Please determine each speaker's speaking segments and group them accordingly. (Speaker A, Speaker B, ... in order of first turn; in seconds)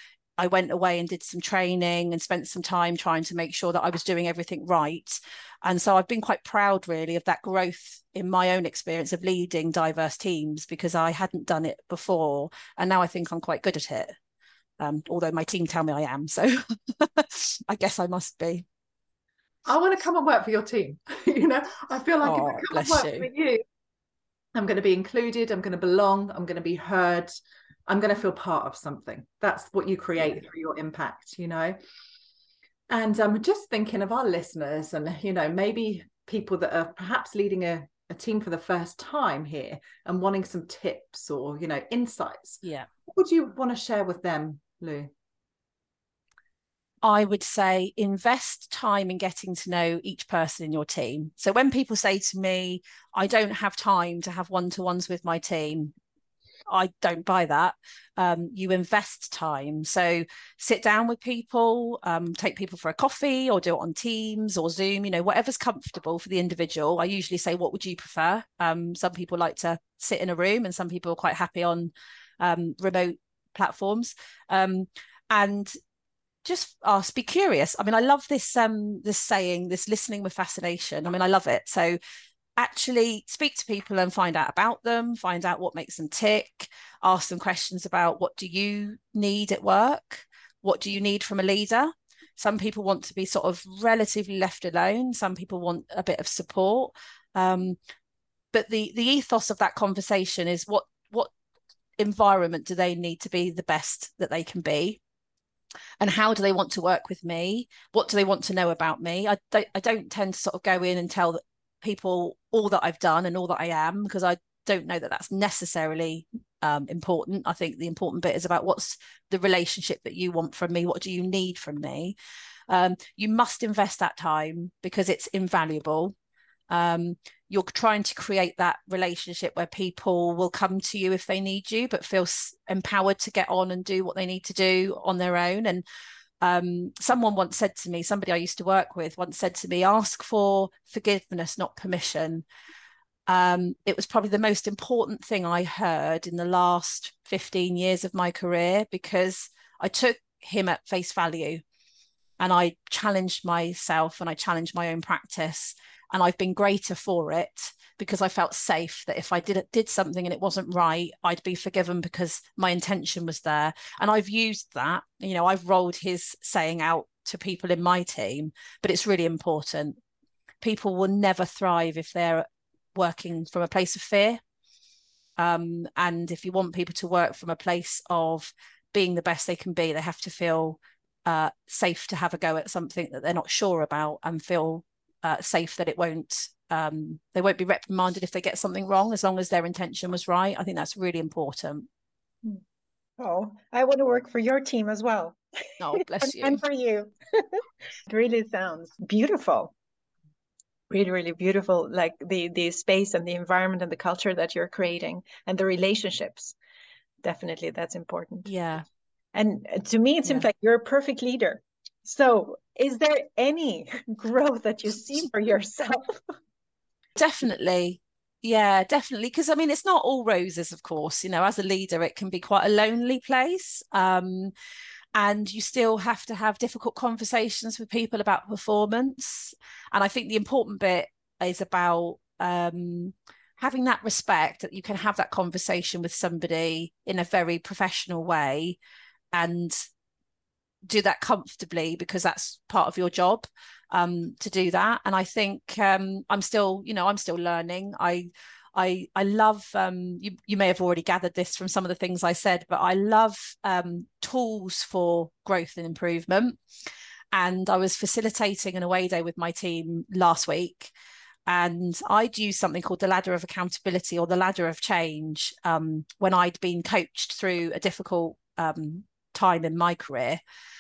Speaker A: 0.4-14.1, 14.8-18.6, 22.2-23.3, 47.0-55.9, 56.7-75.7, 76.5-82.0, 82.6-97.8, 98.5-101.3, 102.0-105.0, 106.0-122.2, 122.7-126.2, 126.7-135.8, 136.4-142.4, 143.3-151.6, 152.4-170.0, 170.6-174.4, 175.4-191.9, 195.8-196.6, 208.5-208.8, 217.2-224.5, 225.2-238.8, 239.3-239.8, 240.9-256.6, 257.3-260.9, 261.5-270.4
Speaker B: 19.7-23.6, 24.5-27.3, 27.9-31.8, 32.9-45.1
Speaker C: 193.2-195.4, 196.2-199.7, 200.9-206.6, 207.2-208.5, 209.3-216.2